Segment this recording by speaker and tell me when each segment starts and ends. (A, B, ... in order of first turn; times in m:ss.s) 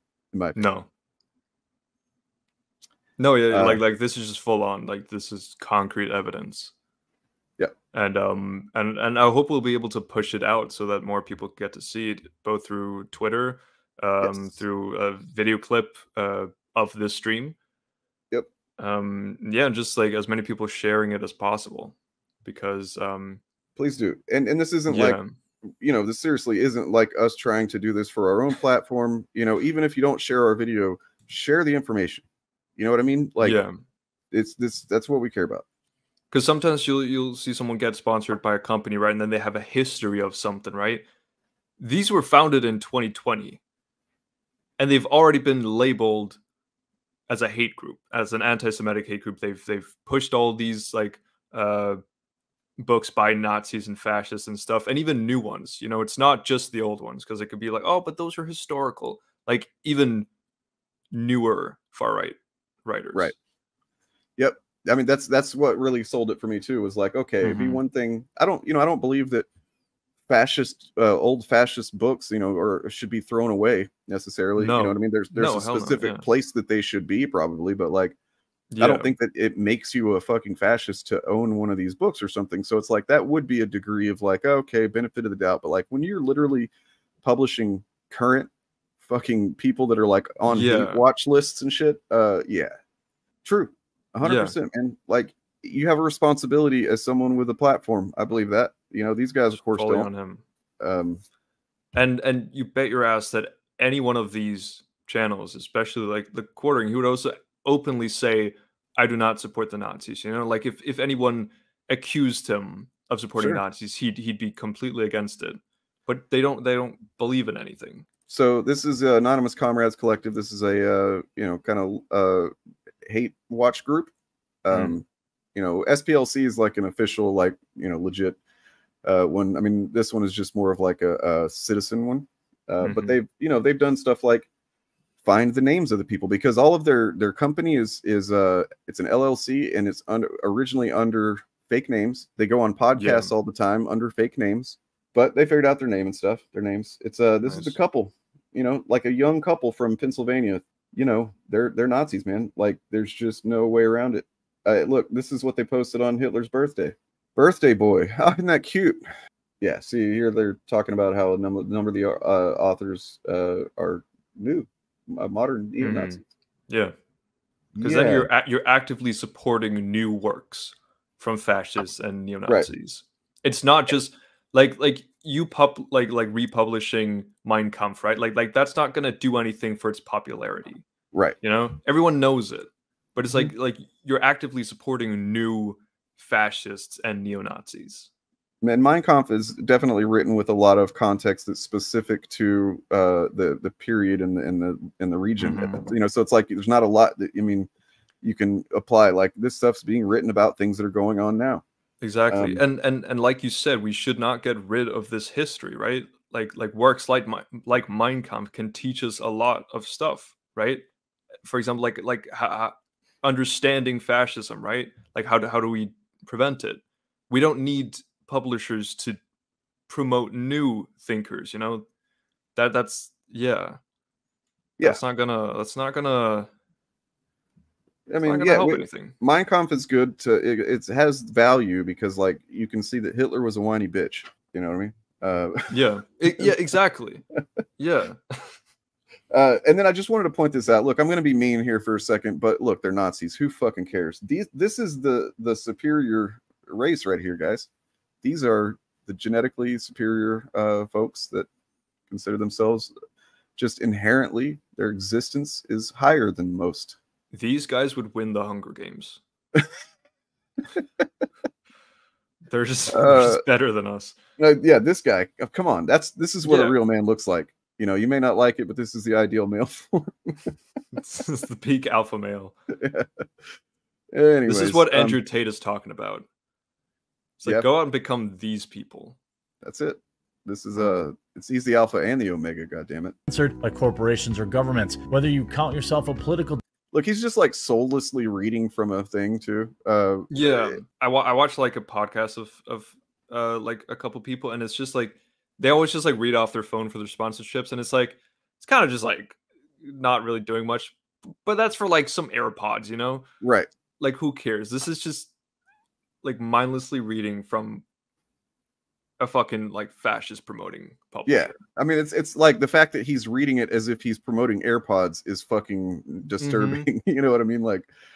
0:00.3-0:00.6 A
0:00.6-0:00.9 B
0:03.2-0:06.7 B
0:03.5-0:03.8 A
0:07.9-0:17.6 B
0:14.2-0:14.5 A
0:18.8-0:23.4 B
0:23.8-0:25.2 A
0:24.9-0:25.3 B
0:25.8-0:32.3 A
0:32.8-0:33.6 A
0:33.4-0:33.8 B
0:34.3-0:35.6 A
0:36.3-0:41.0 B
0:41.8-0:43.6 B
0:44.8-0:46.4 B
0:47.3-0:52.0 B
0:52.8-1:00.3 B
1:01.1-1:03.3 B
1:04.4-1:09.5 A
1:07.4-1:07.8 B
1:10.3-1:18.2 A
1:14.6-1:16.3 B
1:18.7-1:19.1 B
1:18.8-1:26.7 A
1:27.2-1:28.5 A
1:29.0-1:32.7 A
1:30.5-1:31.1 B
1:33.4-1:40.1 A
1:34.2-1:34.6 B
1:39.5-1:40.4 B
1:40.8-1:41.2 A
1:41.9-1:58.0 B
1:58.3-2:02.5 A
2:03.1-2:04.1 A
2:04.6-2:08.4 A
2:04.7-2:05.0 B
2:09.0-2:14.5 A
2:12.8-2:13.2 B
2:15.2-2:39.0 A
2:23.0-2:23.3 B
2:27.5-2:27.8 B
2:39.6-2:46.2 A
2:45.8-2:46.9 B
2:47.8-2:48.3 A
2:47.8-3:00.8 B
3:01.4-3:08.1 B
3:08.6-3:17.7 A
3:15.4-3:15.8 B
3:18.2-3:21.6 A
3:22.0-3:30.9 B
3:22.3-3:22.6 A
3:31.4-3:39.2 B
3:39.9-3:41.8 B
3:42.6-3:43.8 B
3:44.8-3:46.5 B
3:48.1-3:55.6 A
3:48.2-3:49.2 B
3:55.7-3:57.2 B
3:57.8-3:58.5 B
3:59.3-4:07.7 A
4:08.2-4:11.5 A
4:12.1-4:12.9 A
4:13.6-4:17.0 A
4:17.3-4:19.2 B
4:20.8-4:21.0 A
4:22.5-4:24.2 B
4:22.9-4:23.4 A
4:24.4-4:30.5 A
4:26.4-4:26.8 B
4:30.9-4:32.6 B
4:32.8-4:33.1 A
4:34.1-4:35.2 A
4:34.5-4:36.3 B
4:37.4-4:39.2 B
4:39.6-4:43.2 A
4:43.3-4:46.6 C
4:46.9-4:50.8 A
4:50.3-5:03.3 B
5:03.4-5:03.7 A
5:04.0-5:05.3 B
5:06.2-5:07.8 B
5:09.2-5:11.6 B
5:11.3-5:17.9 A
5:16.4-5:16.9 B